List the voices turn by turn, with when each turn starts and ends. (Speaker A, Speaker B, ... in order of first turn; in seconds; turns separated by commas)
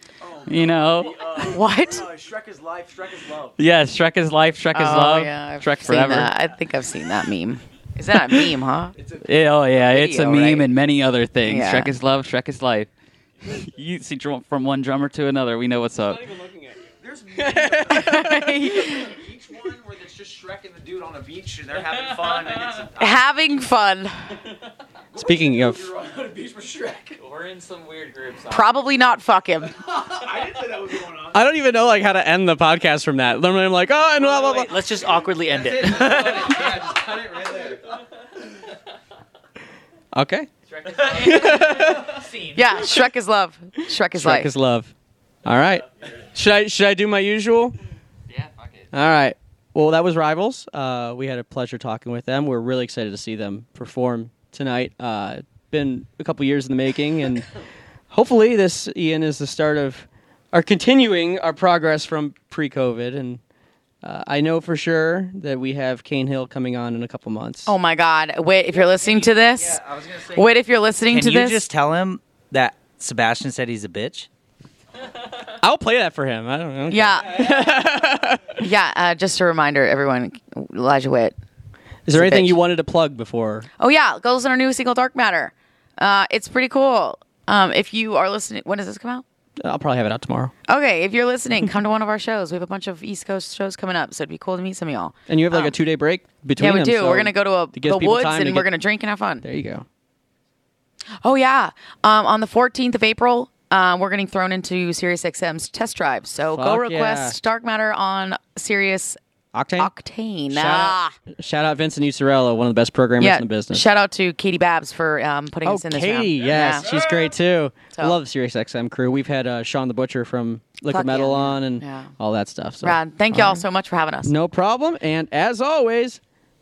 Speaker A: 0.2-3.6, Speaker B: 0.5-1.5, Speaker C: 1.4-2.1, Speaker B: 3.6-6.5, Speaker C: 4.7-8.9, Speaker A: 9.0-9.7, Speaker B: 9.2-12.9, Speaker C: 9.8-10.7, Speaker C: 11.4-11.9, Speaker B: 13.4-16.3, Speaker A: 17.0-23.2, Speaker D: 17.4-18.6, Speaker C: 17.9-19.2, Speaker C: 23.0-24.4, Speaker A: 25.1-27.2, Speaker D: 25.2-25.9, Speaker C: 28.5-29.7, Speaker A: 29.9-31.4, Speaker D: 31.3-34.7, Speaker E: 34.2-36.9, Speaker A: 35.5-37.9, Speaker D: 40.1-42.2, Speaker E: 41.0-42.6, Speaker C: 42.5-44.5, Speaker D: 44.1-44.9, Speaker D: 45.4-47.8, Speaker D: 48.9-57.5, Speaker D: 58.1-63.4, Speaker D: 64.0-67.7, Speaker C: 67.7-71.7, Speaker F: 68.7-70.5, Speaker F: 71.1-74.3, Speaker D: 75.5-78.6, Speaker C: 76.9-77.6, Speaker C: 78.5-81.4, Speaker D: 82.1-83.7, Speaker C: 82.1-82.6, Speaker C: 83.8-89.2, Speaker D: 89.6-90.5, Speaker C: 90.7-95.8, Speaker D: 95.3-98.7, Speaker C: 96.6-99.5, Speaker D: 99.4-99.9, Speaker C: 101.2-109.2, Speaker D: 106.5-107.4, Speaker D: 109.5-109.9, Speaker C: 109.8-111.2, Speaker D: 110.5-113.8, Speaker C: 113.2-116.9, Speaker D: 115.6-123.7, Speaker C: 117.9-118.2, Speaker C: 120.9-122.1, Speaker C: 122.8-124.3, Speaker D: 124.2-126.2